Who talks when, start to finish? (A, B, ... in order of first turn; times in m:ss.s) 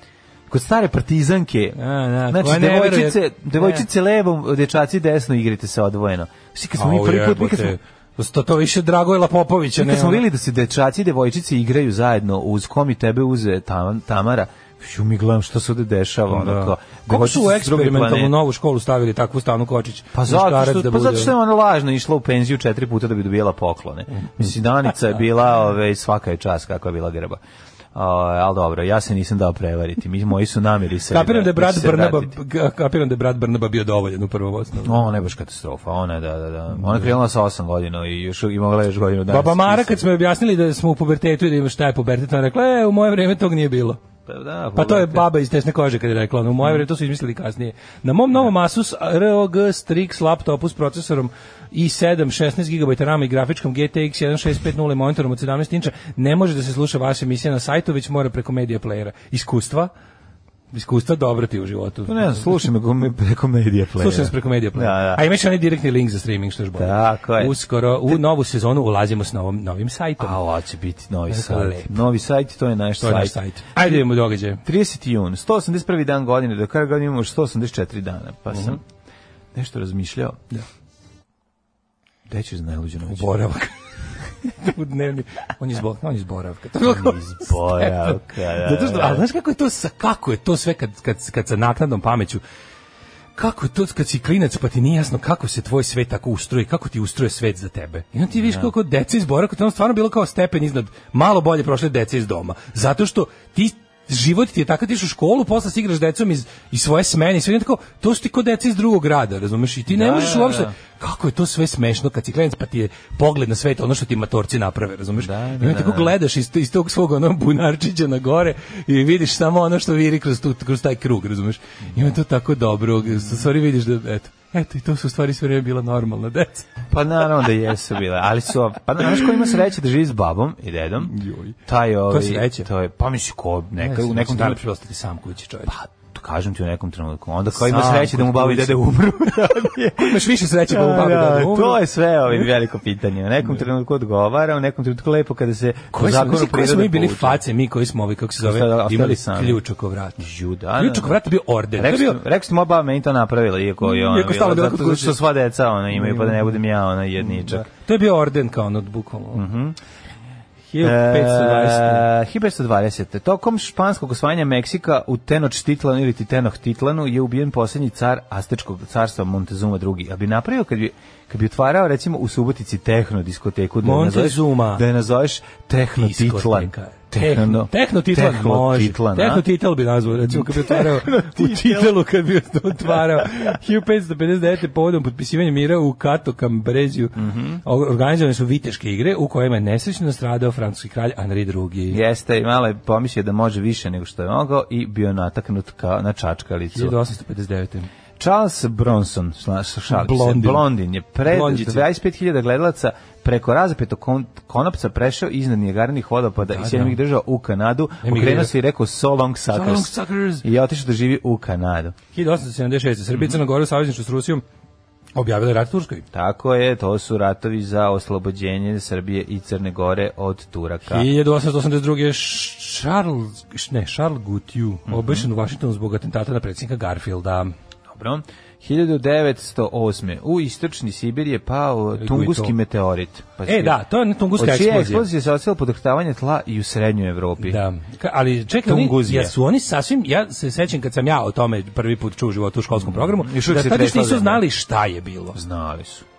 0:00.5-0:01.8 A
0:01.8-0:03.9 B
0:02.3-0:07.8 A
0:06.8-0:10.2 B
0:09.8-0:18.3 A
0:16.3-0:21.3 B
0:20.1-0:27.4 A
0:24.2-0:24.4 B
0:27.9-0:32.3 A
0:31.1-0:35.0 B
0:34.8-0:40.0 A
0:39.3-0:44.0 B
0:44.3-0:45.3 A
0:44.8-0:59.9 B
1:00.7-1:02.5 B
1:02.1-1:05.2 A
1:04.0-1:10.4 B
1:06.8-1:07.6 A
1:10.2-1:14.0 A
1:11.3-1:12.0 B
1:13.0-1:14.6 B
1:14.6-1:18.8 A
1:19.5-1:20.4 A
1:22.3-1:23.3 A
1:23.1-1:23.8 B
1:24.5-1:32.4 B
1:26.8-1:29.2 A
1:33.4-2:06.7 B
1:38.4-1:38.7 A
1:49.9-1:50.7 A
1:55.2-1:56.2 A
2:03.1-2:03.4 A
2:06.9-2:11.1 A
2:11.1-2:11.6 B
2:11.7-2:14.6 A
2:12.1-2:12.7 B
2:13.8-2:15.8 B
2:15.7-2:27.4 A
2:17.6-2:21.8 B
2:25.9-2:30.2 B
2:28.4-2:29.6 A
2:30.2-2:31.2 A
2:30.8-2:32.2 B
2:31.8-2:37.7 A
2:33.8-2:35.2 B
2:35.9-2:36.6 B
2:37.2-2:39.4 B
2:39.3-2:39.8 A
2:40.7-2:42.1 B
2:40.8-2:59.4 A
2:53.8-2:54.8 B
2:56.0-3:12.0 B
3:00.2-3:01.9 A
3:02.9-3:03.5 A
3:07.2-3:07.6 A
3:11.9-3:17.0 A
3:16.7-3:17.9 B
3:18.2-3:32.0 A
3:19.9-3:20.7 B
3:21.2-3:21.9 B
3:26.5-3:27.0 B
3:28.0-3:28.5 B
3:29.5-3:30.4 B
3:32.1-3:34.4 B
3:35.2-3:36.0 B
3:36.1-3:41.1 A
3:40.9-3:47.5 B
3:44.9-3:45.3 A
3:47.9-3:53.8 A
3:52.0-3:52.5 B
3:53.5-3:55.1 B
3:54.4-3:57.6 A
3:57.4-4:05.4 B
3:58.6-3:59.3 A
4:02.8-4:04.4 A
4:05.3-4:06.1 A